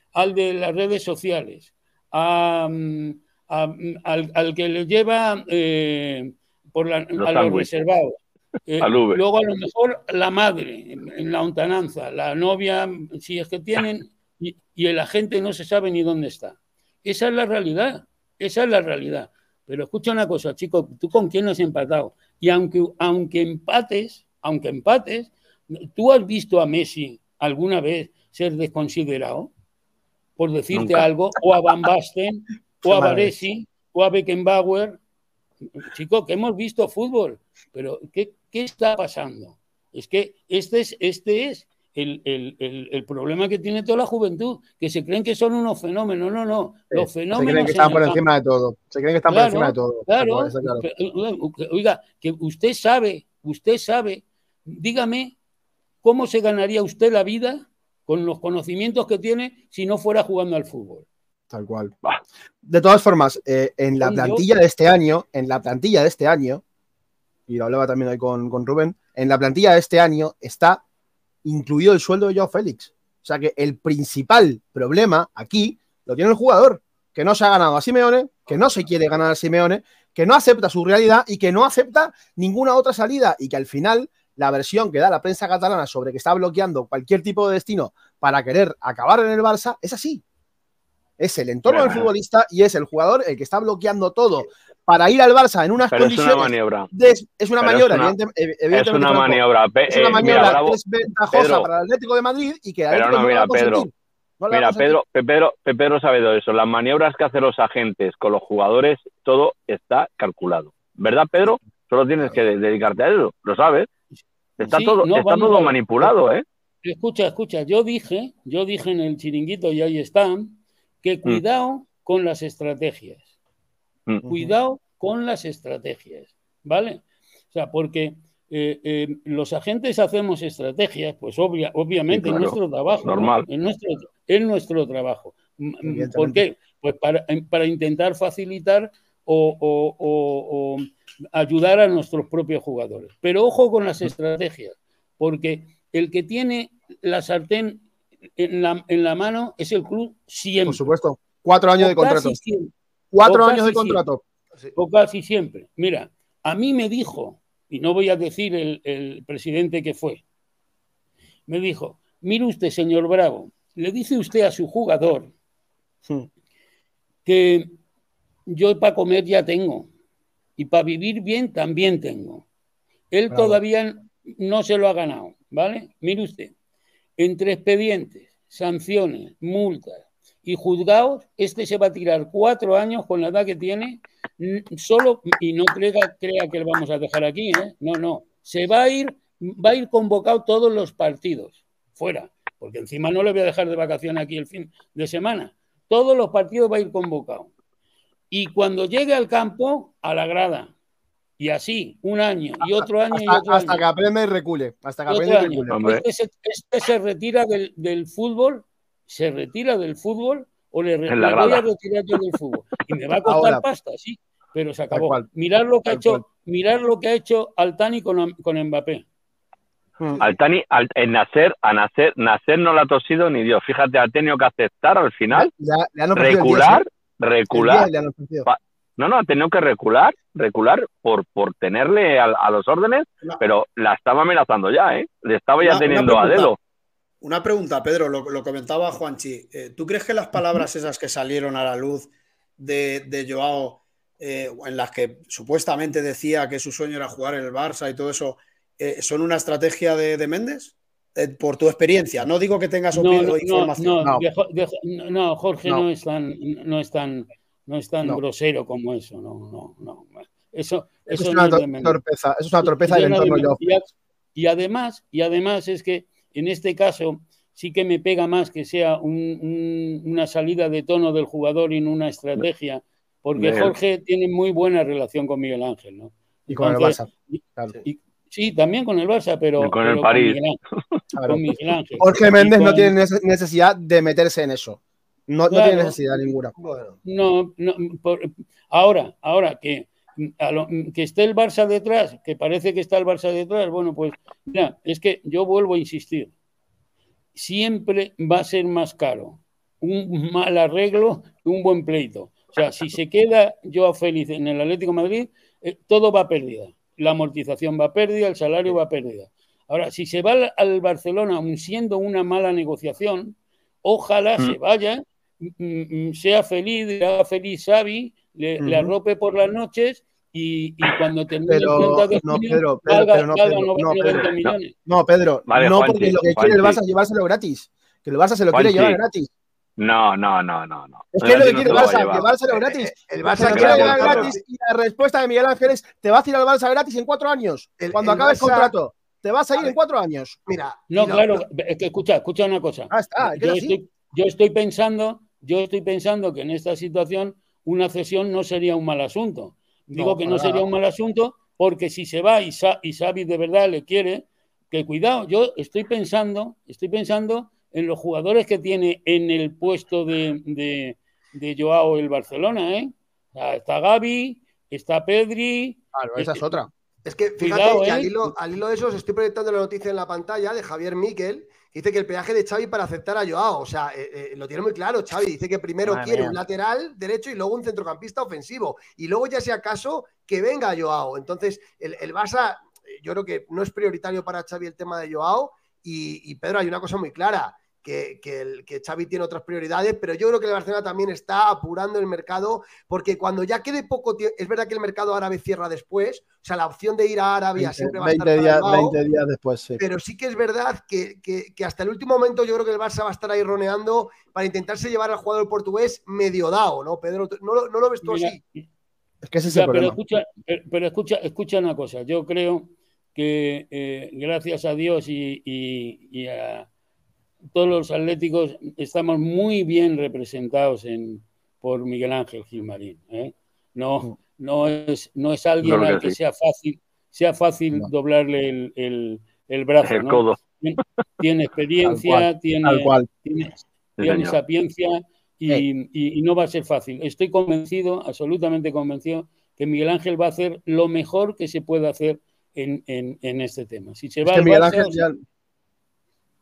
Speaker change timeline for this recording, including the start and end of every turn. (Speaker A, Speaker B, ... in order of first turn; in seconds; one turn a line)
Speaker A: 0.1-29.5
Speaker B: 7.2-7.7
Speaker B: 8.8-9.2
Speaker A: 30.4-35.0
Speaker B: 30.7-31.1
Speaker C: 32.8-33.4
Speaker A: 35.8-48.2
Speaker C: 46.9-50.9
Speaker A: 49.3-55.4
Speaker A: 56.0-61.1
Speaker C: 61.5-61.9
Speaker C: 62.6-66.6
Speaker A: 64.0-64.5
Speaker C: 67.5-70.8
Speaker C: 71.5-90.2
Speaker C: 91.2-105.0
Speaker B: 91.7-92.1
Speaker B: 95.9-96.9
Speaker B: 97.6-98.1
Speaker B: 98.7-100.8
Speaker B: 101.3-101.7
Speaker B: 102.9-103.9
Speaker B: 104.5-113.9
Speaker B: 114.6-116.4
Speaker A: 114.7-116.1
Speaker A: 116.8-123.3
Speaker C: 124.2-124.5
Speaker A: 124.3-147.8
Speaker B: 132.1-133.5
Speaker C: 135.8-136.4
Speaker A: 148.4-150.9
Speaker C: 150.7-152.4
Speaker A: 151.8-152.7
Speaker C: 153.1-154.2
Speaker A: 153.2-154.1
Speaker A: 154.8-160.2
Speaker A: 161.5-165.3
Speaker A: 167.3-167.8
Speaker A: 168.5-169.9
Speaker A: 170.6-172.5
Speaker A: 173.1-176.5
Speaker C: 173.3-173.6
Speaker A: 177.2-197.5
Speaker A: 198.3-200.7
Speaker A: 201.4-203.8
Speaker C: 202.8-205.8
Speaker A: 205.1-219.1
Speaker B: 205.7-206.0
Speaker B: 211.1-212.2
Speaker C: 213.3-213.6
Speaker C: 214.9-215.3
Speaker C: 215.9-216.2
Speaker B: 220.2-225.5
Speaker C: 225.3-226.8
Speaker B: 226.2-227.9
Speaker C: 227.5-228.5
Speaker B: 228.5-236.6
Speaker D: 235.6-236.5
Speaker D: 237.2-254.1
Speaker A: 252.9-262.0
Speaker C: 261.1-263.6
Speaker A: 262.6-280.6
Speaker B: 273.4-273.7
Speaker C: 276.5-277.8
Speaker B: 279.6-280.4
Speaker C: 281.1-281.4
Speaker A: 281.2-282.9
Speaker C: 282.0-286.6
Speaker A: 285.5-286.0
Speaker E: 286.6-287.0
Speaker A: 287.0-296.3
Speaker A: 297.4-324.7
Speaker C: 318.6-318.9
Speaker C: 321.5-324.3
Speaker C: 324.9-329.3
Speaker B: 325.5-326.8
Speaker B: 328.5-329.0
Speaker B: 329.8-332.3
Speaker C: 331.1-340.4
Speaker E: 331.8-334.4
Speaker B: 333.5-334.3
Speaker E: 337.8-338.7
Speaker E: 340.5-341.4
Speaker A: 340.9-366.4
Speaker C: 342.9-343.8
Speaker C: 349.9-350.6
Speaker C: 365.9-366.7
Speaker E: 367.1-399.0
Speaker A: 367.4-368.3
Speaker C: 375.8-376.4
Speaker C: 397.6-399.8
Speaker E: 399.8-408.4
Speaker A: 408.0-408.7
Speaker C: 409.2-410.0
Speaker A: 409.4-416.7
Speaker A: 417.5-445.0
Speaker B: 425.6-426.2
Speaker B: 429.8-430.4
Speaker C: 431.8-433.1
Speaker B: 434.0-434.4
Speaker C: 444.2-445.2